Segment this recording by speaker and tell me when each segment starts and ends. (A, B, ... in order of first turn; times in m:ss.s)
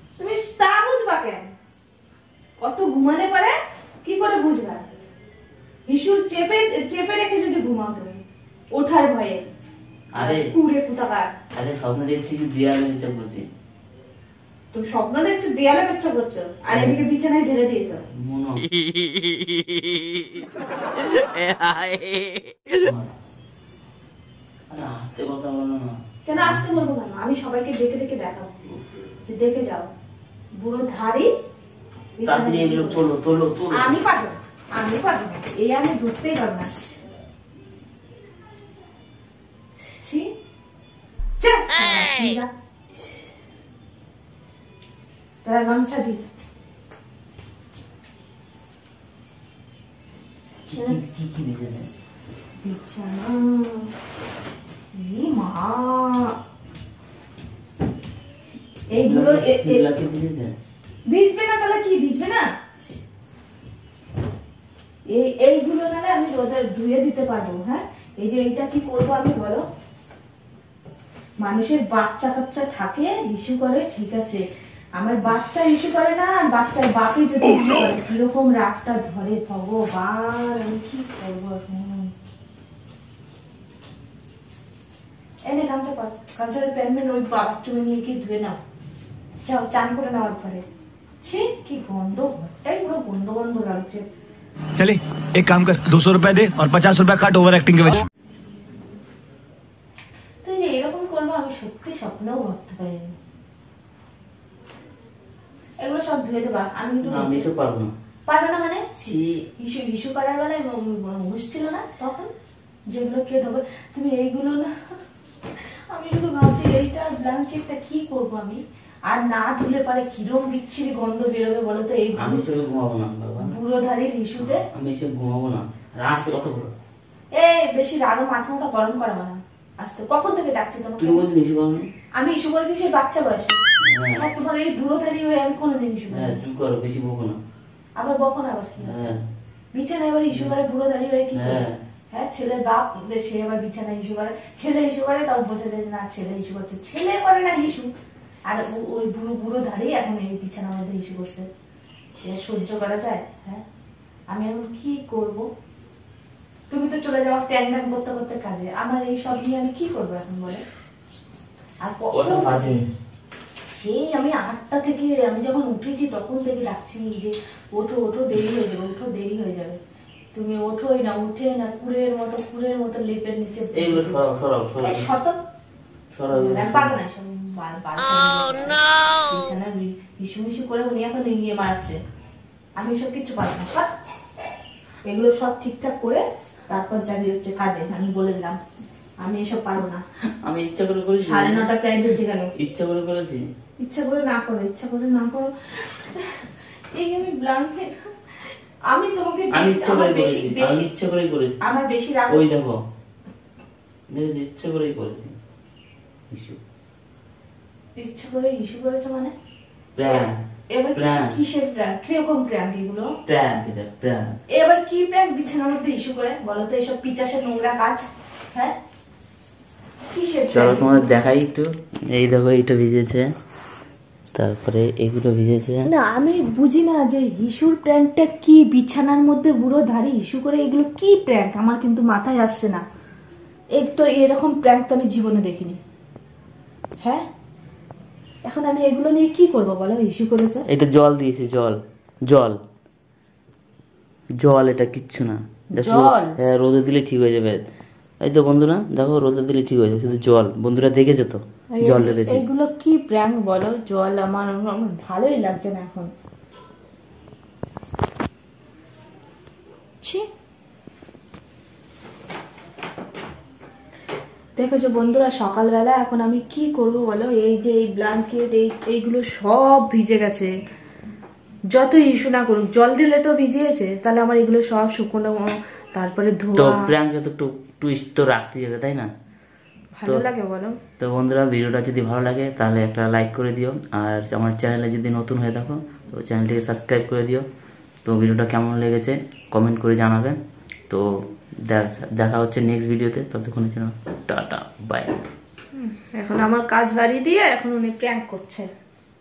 0:00.2-0:01.5 A
0:02.6-0:04.9 A
0:05.9-0:08.2 A
0:08.7-0:09.5 A
0:10.1-0:10.4 B
0:10.2-0:11.3 A
0:11.5-0:13.4 B
0:14.7-0:18.0 A
0:16.7-0:17.0 B
0:18.2-0:18.7 B
0:21.2-0:22.0 B
0:22.7-0:23.1 B
0:24.7-0:26.8 B
0:26.3-0:28.5 A
0:29.2-0:29.9 A
0:30.6-0:31.3 A
0:32.2-0:33.0 A
0:32.2-0:34.0 B
0:33.7-0:36.9 A
0:40.0-0:40.3 A
0:41.4-0:42.5 A
0:45.4-0:46.2 A
0:50.7-0:51.9 B
0:50.7-0:51.0 A
0:52.6-0:53.9 A
0:54.9-0:56.3 A
0:58.9-0:59.8 A
0:58.9-1:00.5 B
1:01.1-1:02.4 A
1:05.1-1:09.6 A
1:11.4-1:14.4 A
1:15.0-1:22.1 A
1:25.5-1:28.6 A
1:29.4-1:30.6 A
1:31.2-1:34.0 A
1:34.8-1:38.0 C
1:40.4-1:43.1 A
1:45.8-1:47.5 A
1:47.0-1:47.9 B
1:48.3-1:52.3 A
1:49.0-1:49.4 B
1:52.9-1:55.0 A
1:55.6-2:02.5 A
2:02.2-2:03.5 B
2:03.4-2:04.6 A
2:04.4-2:06.7 B
2:07.3-2:11.2 A
2:11.0-2:11.9 B
2:12.2-2:13.6 A
2:13.8-2:14.2 B
2:14.2-2:16.4 A
2:16.1-2:17.4 B
2:18.0-2:19.1 A
2:18.8-2:19.2 B
2:19.7-2:27.9 A
2:21.3-2:21.8 B
2:28.5-2:31.5 A
2:32.2-2:33.6 A
2:34.3-2:35.5 A
2:36.7-2:40.6 A
2:41.8-2:42.8 A
2:42.1-2:42.8 B
2:43.7-2:49.8 A
2:50.3-2:54.2 A
2:53.8-2:55.1 B
2:54.8-2:55.4 A
2:56.1-2:57.0 B
2:56.3-3:02.0 A
3:02.8-3:03.9 A
3:05.0-3:08.6 A
3:09.2-3:10.0 A
3:10.4-3:11.7 B
3:11.2-3:12.5 A
3:12.6-3:13.4 B
3:13.8-3:18.1 A
3:18.9-3:20.9 A
3:19.5-3:21.6 B
3:21.6-3:22.5 A
3:22.3-3:22.8 B
3:24.1-3:25.3 B
3:26.3-3:26.6 B
3:28.0-3:29.3 A
3:30.0-3:30.4 B
3:30.0-3:33.1 A
3:31.0-3:31.3 B
3:33.3-3:34.4 B
3:34.5-3:38.7 A
3:40.1-3:41.2 A
3:40.5-3:43.3 B
3:44.4-3:45.9 B
3:45.8-3:52.8 A
3:53.8-3:55.8 A
3:58.5-4:00.6 A
4:00.7-4:02.6 B
4:04.4-4:07.6 B
4:05.8-4:06.4 A
4:08.2-4:12.4 B
4:11.7-4:16.1 A
4:20.0-4:20.3 A
4:24.6-4:30.5 A
4:31.7-4:36.9 A
4:36.6-4:39.1 B
4:40.0-4:40.8 A
4:41.0-4:47.4 B
4:48.0-4:50.4 B
4:51.7-4:55.2 B
4:55.8-4:58.7 A